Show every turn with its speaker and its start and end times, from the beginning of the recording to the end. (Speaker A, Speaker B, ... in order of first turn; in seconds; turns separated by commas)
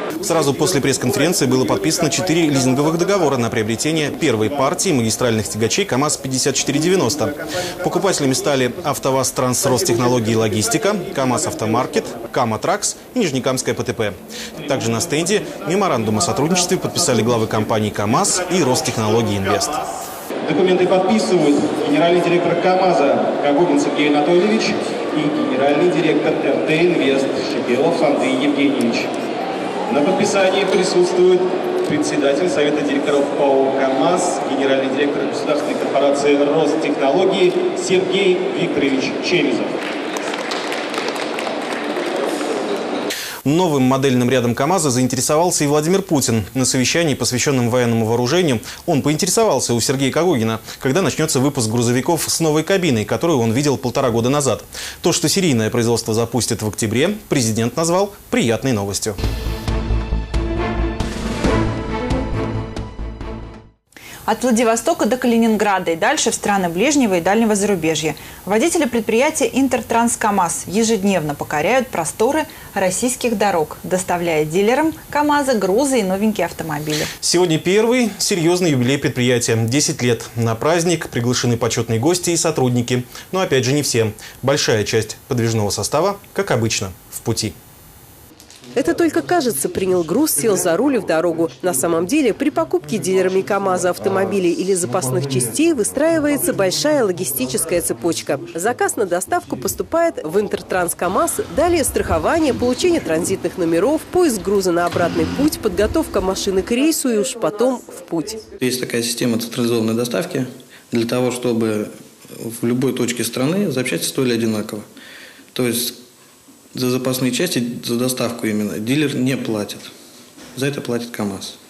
Speaker A: 0.2-19.8, Speaker B: 20.4-29.1, Speaker B: 29.9-39.7, Speaker A: 43.5-59.1, Speaker C: 64.3-77.1, Speaker A: 77.2-87.5, Speaker D: 88.8-108.6, Speaker E: 108.6-114.8, Speaker E: 115.5-116.0, Speaker E: 116.7-119.9, Speaker E: 120.5-121.5